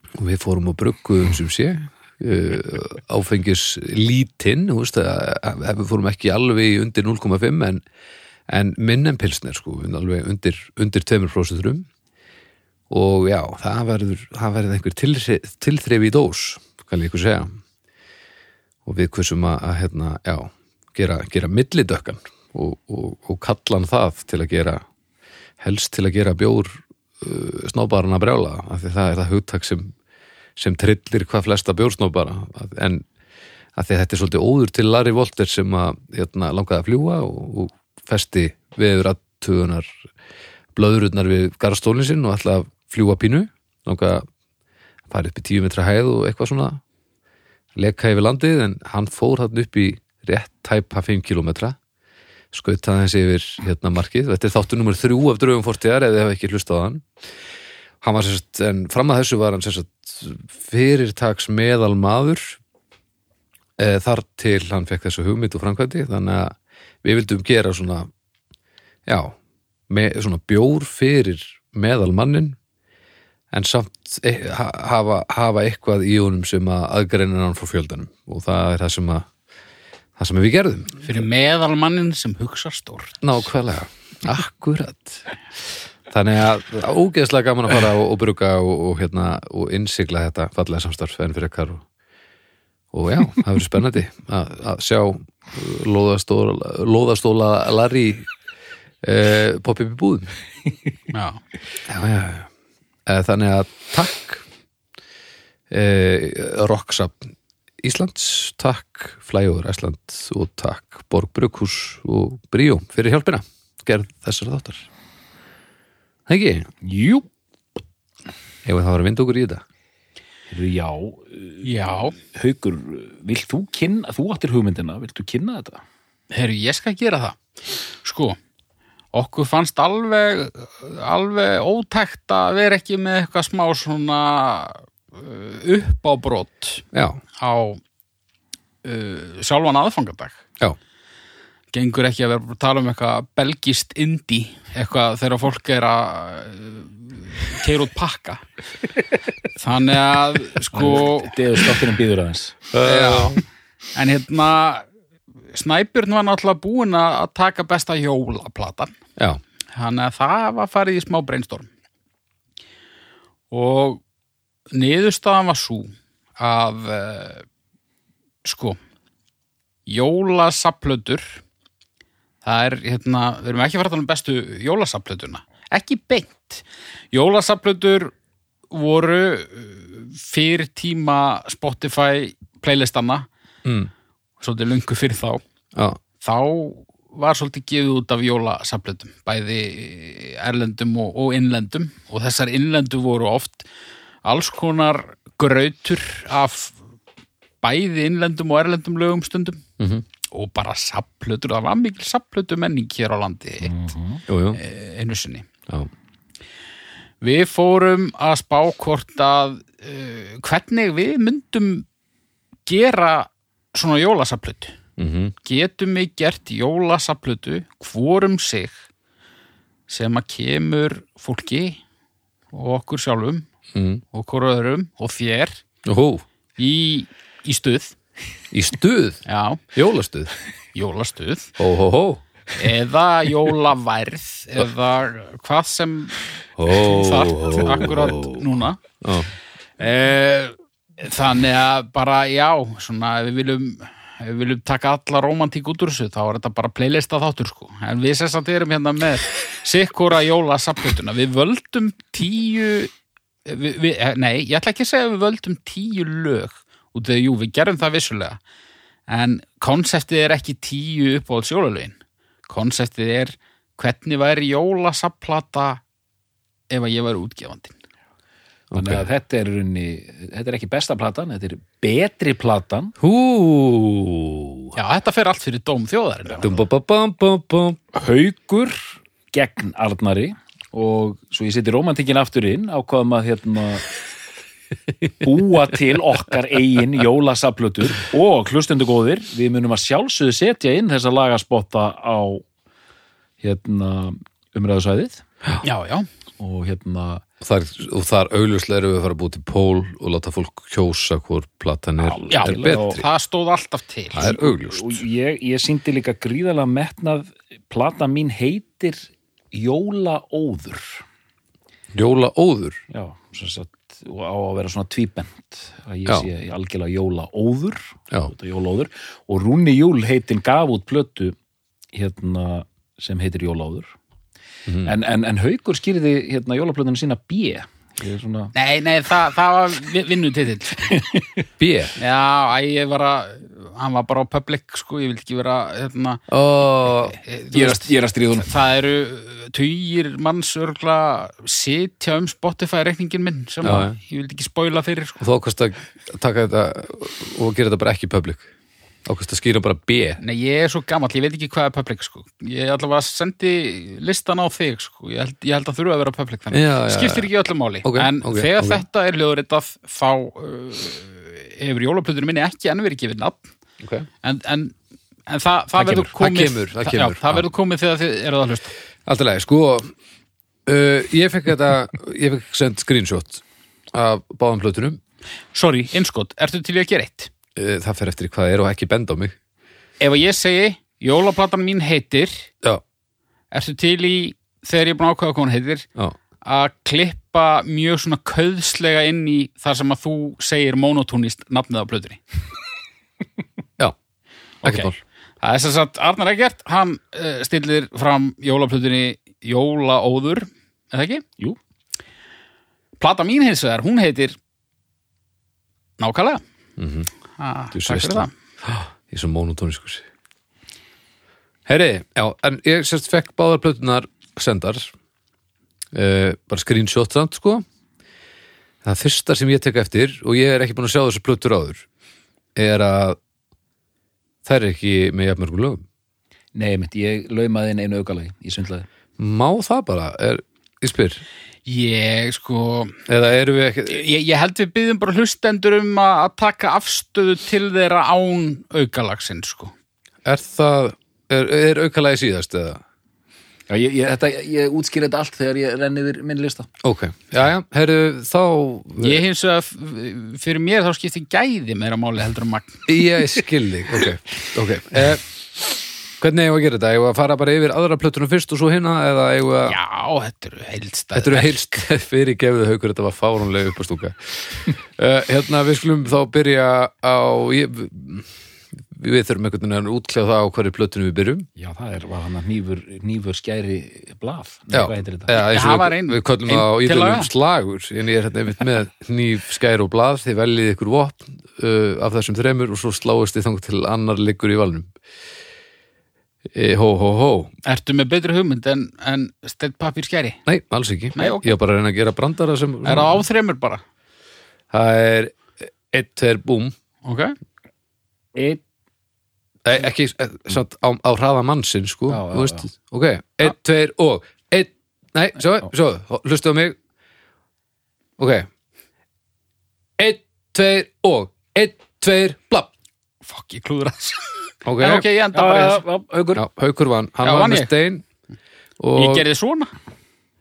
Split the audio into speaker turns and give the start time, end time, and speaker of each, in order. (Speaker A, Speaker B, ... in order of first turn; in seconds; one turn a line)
Speaker A: 0.2-7.8
Speaker A: 8.5-11.9
Speaker A: 12.9-17.6
Speaker A: 18.9-24.8
Speaker A: 25.6-29.9
Speaker A: 30.6-33.0
Speaker A: 33.8-39.9
Speaker A: 40.7-44.2
Speaker A: 45.1-46.8
Speaker A: 47.8-51.8
Speaker A: 52.5-57.0
Speaker A: 58.0-62.6
Speaker A: 63.8-68.1
Speaker A: 69.1-69.3
Speaker A: 69.9-72.6
Speaker A: 73.5-79.3
Speaker A: 80.2-81.0
Speaker B: 81.0-83.2
Speaker A: 83.2-85.3
Speaker A: 86.1-91.8
Speaker A: 92.9-98.3
Speaker A: 99.0-100.3
Speaker B: 101.1-101.4
Speaker A: 101.8-102.5
Speaker A: 103.1-104.4
Speaker A: 105.7-114.9
Speaker A: 116.3-116.7
Speaker C: 116.8-117.2
Speaker A: 118.6-119.6
Speaker C: 120.5-125.8
Speaker B: 121.6-122.2
Speaker B: 126.3-127.4
Speaker B: 128.0-128.4
Speaker B: 129.1-136.8
Speaker A: 136.9-137.2
Speaker B: 137.4-137.8
Speaker B: 138.8-140.4
Speaker B: 141.7-148.4
Speaker B: 149.6-151.6
Speaker C: 150.7-152.6
Speaker A: 152.7-153.4
Speaker B: 152.8-153.4
Speaker B: 153.9-154.8
Speaker B: 155.5-158.9
Speaker B: 159.7-161.7
Speaker B: 163.5-164.0
Speaker B: 164.7-167.4
Speaker B: 168.4-168.8
Speaker B: 169.9-171.4
Speaker B: 172.4-178.1
Speaker B: 178.7-183.3
Speaker A: 183.6-183.9
Speaker B: 184.4-185.4
Speaker B: 186.2-193.7
Speaker B: 194.2-196.8
Speaker B: 197.6-199.6
Speaker A: 199.8-200.0
Speaker B: 200.3-203.7
Speaker C: 203.6-204.2
Speaker A: 204.3-204.6
Speaker B: 204.5-205.5
Speaker B: 207.2-211.8
Speaker B: 212.7-214.8
Speaker A: 215.0-215.3
Speaker B: 215.4-218.7
Speaker B: 219.9-221.8
Speaker B: 222.5-223.4
Speaker A: 223.7-224.0
Speaker B: 224.1-225.6
Speaker A: 225.8-226.2
Speaker B: 226.6-227.9
Speaker A: 228.5-229.2
Speaker B: 229.2-229.6
Speaker A: 229.7-230.3
Speaker B: 230.7-231.5
Speaker A: 231.6-232.2
Speaker B: 232.5-238.8
Speaker A: 236.6-238.4
Speaker A: 239.0-239.3
Speaker B: 239.8-252.9
Speaker B: 253.4-258.4
Speaker B: 259.1-262.0
Speaker B: 262.5-265.8
Speaker B: 266.7-267.7
Speaker A: 268.7-269.0
Speaker C: 268.7-272.9
Speaker A: 273.0-274.7
Speaker B: 274.7-276.5
Speaker A: 276.4-277.8
Speaker C: 277.9-283.9
Speaker C: 285.2-292.4
Speaker C: 293.4-295.2
Speaker B: 295.6-296.1
Speaker C: 296.4-297.2
Speaker A: 297.4-303.0
Speaker C: 302.0-303.0
Speaker B: 302.3-304.3
Speaker A: 304.1-305.0
Speaker C: 304.2-311.0
Speaker A: 311.9-312.8
Speaker C: 312.9-321.3
Speaker C: 321.9-323.9
Speaker A: 324.7-324.9
Speaker C: 324.8-328.5
Speaker B: 328.5-331.0
Speaker C: 330.9-331.3
Speaker A: 331.6-331.9
Speaker B: 332.0-336.3
Speaker A: 336.3-337.2
Speaker B: 336.9-345.2
Speaker C: 337.5-338.5
Speaker A: 343.6-344.0
Speaker A: 345.2-348.5
Speaker A: 349.1-350.2
Speaker B: 350.2-363.5
Speaker A: 356.5-357.3
Speaker A: 357.8-358.8
Speaker A: 363.8-364.1
Speaker B: 364.2-364.7
Speaker B: 365.3-368.7
Speaker A: 365.8-367.4
Speaker A: 369.1-369.9
Speaker A: 370.6-375.0
Speaker B: 375.5-377.3
Speaker A: 377.6-379.3
Speaker B: 380.0-382.5
Speaker B: 383.5-385.9
Speaker B: 386.4-392.2
Speaker A: 394.6-395.0
Speaker B: 394.6-401.2
Speaker B: 403.0-404.4
Speaker B: 406.0-406.4
Speaker A: 406.8-407.1
Speaker B: 407.4-408.3
Speaker A: 407.7-410.1
Speaker A: 411.7-414.9
Speaker A: 415.9-417.6
Speaker A: 418.8-421.9
Speaker A: 422.6-423.2
Speaker A: 424.4-425.8
Speaker C: 426.5-428.9
Speaker A: 429.2-431.2
Speaker B: 431.6-433.0
Speaker A: 433.1-434.0
Speaker B: 433.9-439.7
Speaker A: 440.2-442.8
Speaker C: 443.7-446.7
Speaker A: 446.8-449.2
Speaker B: 449.0-452.9
Speaker A: 452.9-455.2
Speaker A: 456.2-459.8
Speaker B: 459.6-461.6
Speaker A: 461.1-468.3
Speaker A: 468.9-471.5
Speaker C: 471.6-475.3
Speaker A: 474.7-484.9
Speaker B: 475.3-477.3
Speaker A: 486.5-487.5
Speaker B: 487.6-490.4
Speaker A: 490.4-493.2
Speaker B: 491.1-491.4
Speaker B: 492.8-493.8
Speaker A: 494.7-496.7
Speaker B: 497.0-497.4
Speaker C: 498.3-498.6
Speaker A: 499.6-506.8
Speaker C: 502.1-502.6
Speaker A: 508.2-508.5
Speaker A: 510.0-512.7
Speaker B: 513.2-515.8
Speaker A: 514.6-515.1
Speaker C: 515.3-516.4
Speaker A: 516.3-518.0
Speaker B: 517.2-517.7
Speaker A: 518.8-519.2
Speaker B: 518.9-519.7